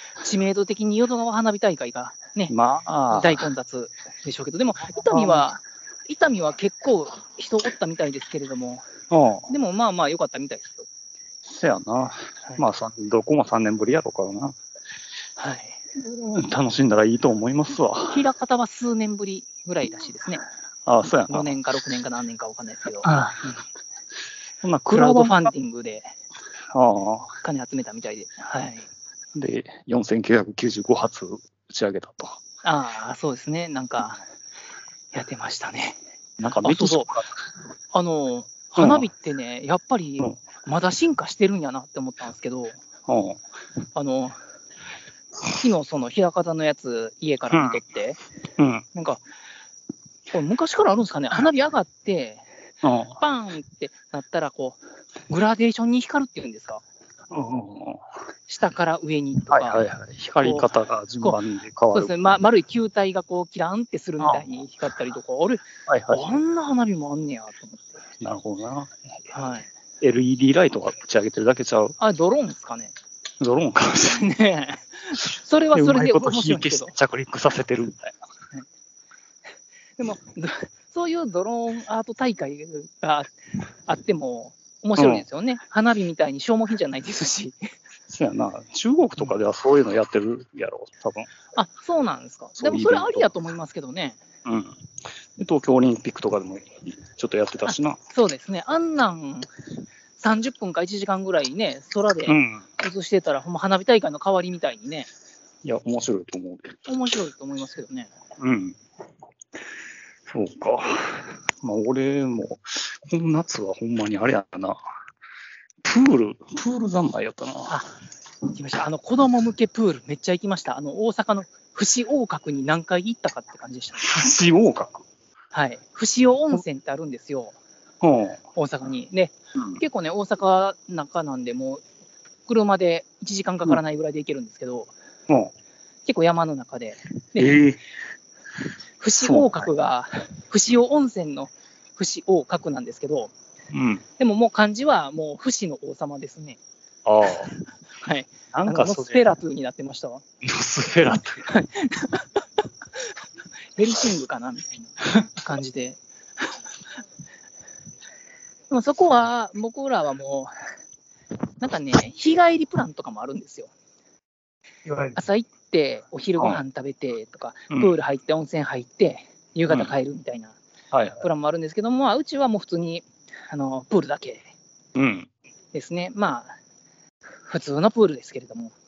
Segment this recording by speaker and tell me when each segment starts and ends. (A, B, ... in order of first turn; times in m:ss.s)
0:00.2-0:02.5 A
0:02.5-0:03.4 B
0:03.1-0:08.9 A
0:05.0-0:05.4 B
0:09.1-0:09.5 B
0:09.5-0:10.9 A
0:11.4-0:14.6 B
0:15.4-0:15.8 A
0:16.0-0:18.2 B
0:18.1-0:20.4 A
0:20.8-0:21.5 B
0:21.0-0:23.6 A
0:23.0-0:23.5 B
0:24.6-0:25.5 B
0:24.9-0:26.1 A
0:26.7-0:27.3 B
0:27.4-0:28.9 A
0:29.3-0:32.4 B
0:32.6-0:34.2 A
0:35.1-0:37.1 A
0:36.4-0:37.3 B
0:37.9-0:42.8 A
0:38.8-0:39.1 B
0:43.1-0:43.4 B
0:43.9-0:44.4 A
0:45.5-0:48.2 A
0:47.5-0:47.8 B
0:48.6-0:48.8 B
0:48.9-0:49.2 A
0:50.3-0:52.4 A
0:52.8-0:53.2 B
0:53.2-0:56.8 A
0:57.3-0:58.0 B
0:58.5-0:59.8 A
0:59.5-1:02.1 B
1:00.4-1:00.7 A
1:01.9-1:08.0 A
1:04.2-1:04.5 B
1:05.9-1:06.3 B
1:08.2-1:09.1 B
1:09.3-1:09.7 A
1:10.0-1:12.0 B
1:12.0-1:12.9 A
1:13.4-1:14.2 B
1:14.0-1:16.9 A
1:15.7-1:18.2 B
1:20.0-1:23.3 A
1:23.8-1:27.6 A
1:25.0-1:25.2 B
1:28.1-1:31.3 B
1:31.5-1:34.2 A
1:32.6-1:33.3 B
1:34.4-1:34.8 B
1:35.4-1:38.0 B
1:37.6-1:39.5 A
1:40.2-1:45.1 A
1:42.3-1:42.6 B
1:45.6-1:46.8 B
1:46.8-1:48.1 A
1:48.4-1:48.8 B
1:50.3-1:54.8 B
1:55.8-1:57.8 B
1:58.5-2:04.0 A
2:04.0-2:05.0 B
2:05.5-2:07.6 A
2:08.0-2:08.4 B
2:08.5-2:11.8 A
2:12.5-2:14.9 A
2:16.0-2:17.6 A
2:17.4-2:17.8 B
2:19.0-2:23.3 A
2:19.2-2:19.7 B
2:23.7-2:24.0 B
2:24.2-2:26.6 A
2:27.0-2:27.5 B
2:28.0-2:30.2 A
2:28.5-2:29.2 B
2:30.4-2:31.5 B
2:31.4-2:32.3 A
2:33.8-2:36.0 A
2:38.7-2:40.5 A
2:41.6-2:43.7 A
2:44.8-2:45.2 B
2:45.1-2:50.6 A
2:46.4-2:46.6 B
2:50.9-2:51.2 B
2:51.2-2:54.5 A
2:54.9-2:55.3 B
2:55.7-2:56.5 A
2:57.4-2:58.7 A